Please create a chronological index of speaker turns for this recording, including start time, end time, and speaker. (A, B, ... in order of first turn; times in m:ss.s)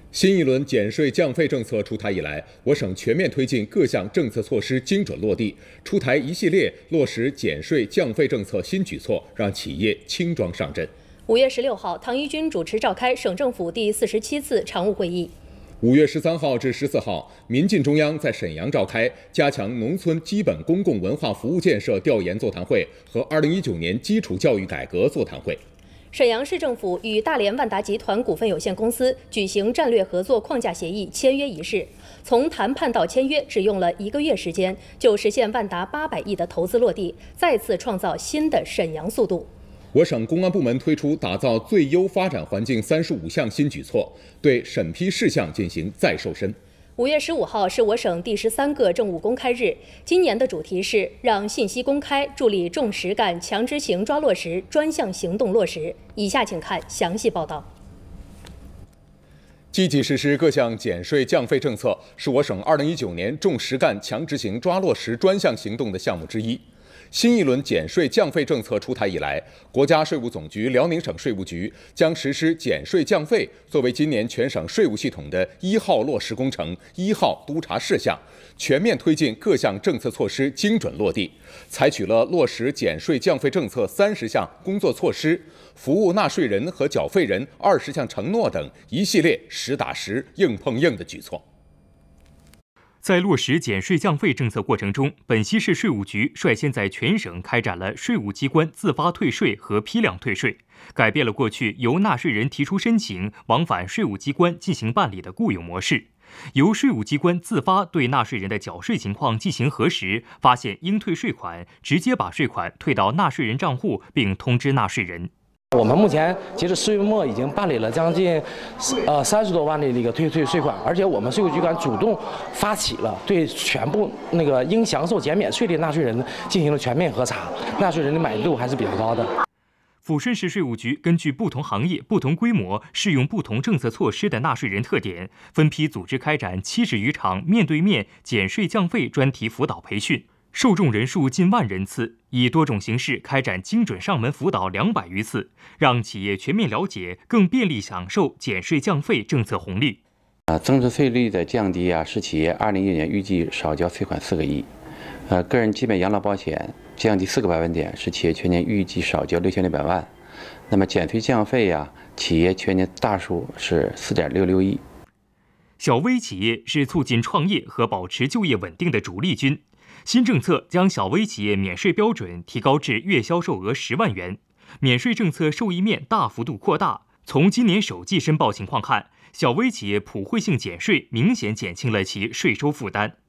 0:00.1-0:10.9 A
0:11.3-0:15.3 B
0:15.8-0:25.6 A
0:26.1-0:39.5 B
0:39.9-0:46.6 A
0:47.0-0:57.7 B
0:59.7-1:31.4 A
1:33.0-1:55.3 C
1:55.7-2:09.3 D
2:10.0-2:30.0 C
2:30.5-2:34.7 E
2:35.3-2:40.1 E
2:40.7-2:44.8 E
2:45.8-3:03.2 C